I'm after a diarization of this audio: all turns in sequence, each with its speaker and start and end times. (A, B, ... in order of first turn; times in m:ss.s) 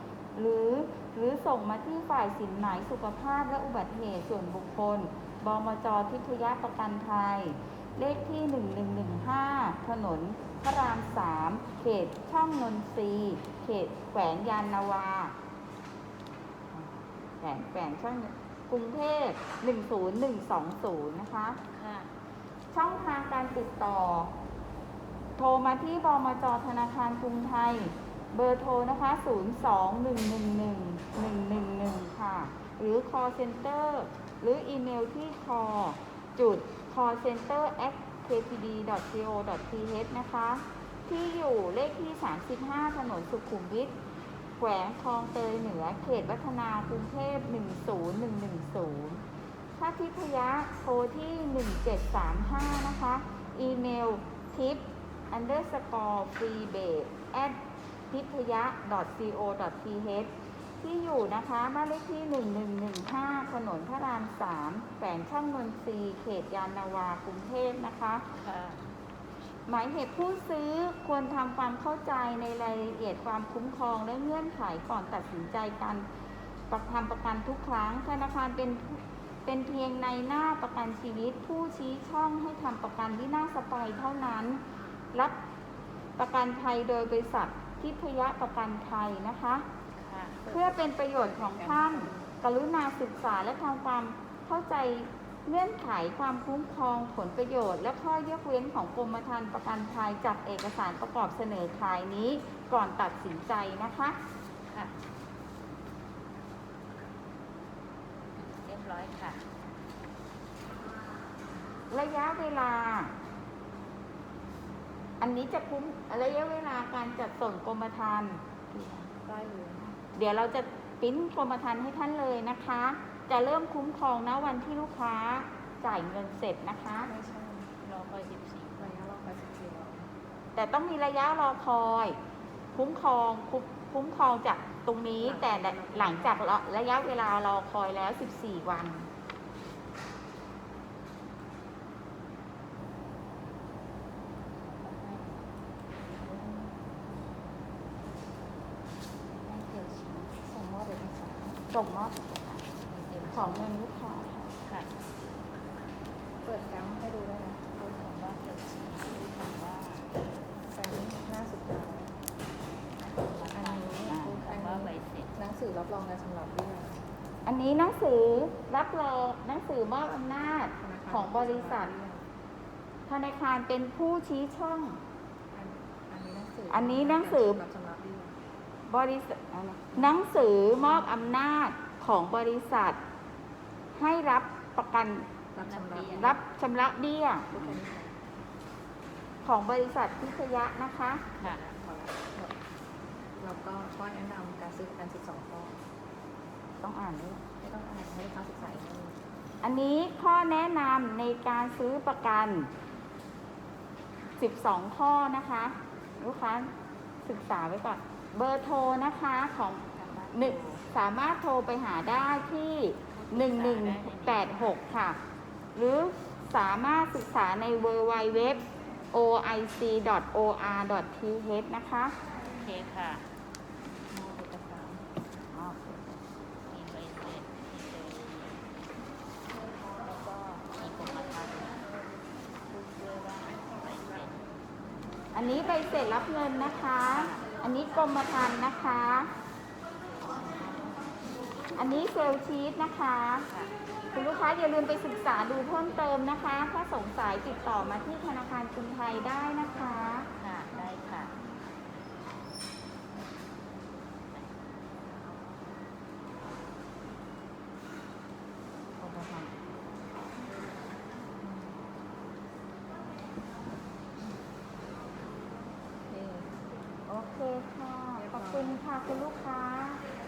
0:00.4-0:15.3 A
0:16.7-0:21.6 A
0:21.7-0:22.1 B
0:22.7-0:24.3 A
0:25.4-0:43.9 A
0:44.6-0:49.2 A
0:49.8-0:57.6 A
0:58.1-1:00.3 A
1:00.8-1:08.2 A
1:08.4-1:08.8 B
1:09.7-1:16.0 A
1:16.7-1:24.6 A
1:26.2-1:29.6 A
1:29.9-1:30.4 B
1:30.4-1:32.3 C
1:30.5-1:44.2 A
1:44.7-1:44.9 B
1:48.4-1:49.4 B
1:51.9-1:53.1 A
1:55.2-1:58.4 A
1:58.7-1:59.9 C
2:00.1-2:07.1 A
2:07.0-2:07.7 C
2:07.8-2:09.1 B
2:08.8-2:10.1 C
2:10.5-2:12.2 A
2:12.7-2:19.1 A
2:15.2-2:16.5 C
2:24.7-2:25.5 B
2:26.2-2:26.7 C
2:29.4-2:30.4 B
2:30.4-2:31.6 C
2:31.7-2:32.6 A
2:32.8-2:33.8 B
2:33.3-2:34.5 A
2:34.6-2:34.9 B
2:36.4-2:37.8 C
2:37.8-2:40.1 B
2:40.6-2:42.1 C
2:43.0-2:45.3 B
2:43.5-2:47.0 C
2:44.1-2:44.4 A
2:47.4-2:51.9 A
2:50.8-2:52.3 C
2:53.1-2:55.0 A
2:55.5-2:58.4 C
2:56.7-2:57.6 A
2:58.9-3:03.0 A
3:00.0-3:00.8 C
3:00.4-3:01.3 B
3:04.0-3:05.3 A
3:05.5-3:06.4 C
3:05.6-3:06.4 B
3:06.1-3:07.8 A
3:07.5-3:08.2 C
3:09.4-3:11.3 A
3:11.4-3:12.5 C
3:13.4-3:15.8 C
3:16.8-3:17.4 A
3:17.6-3:19.2 C
3:19.6-3:22.7 A
3:24.4-3:26.7 A
3:27.2-3:35.2 A
3:29.9-3:30.9 B
3:33.1-3:34.9 B
3:35.7-3:42.1 A
3:42.6-3:43.2 B
3:44.1-3:45.0 C
3:45.5-3:46.2 A
3:46.7-3:48.7 B
3:50.0-3:51.9 B
3:52.7-3:54.5 B
3:55.3-3:59.3 A
3:57.0-3:57.5 B
4:01.8-4:03.5 A
4:04.1-4:10.3 A
4:10.4-4:11.4 B
4:14.3-4:14.6 B
4:19.0-4:19.5 A
4:21.4-4:21.8 C
4:26.1-4:26.5 C
4:27.1-4:30.0 A
4:28.1-4:28.8 C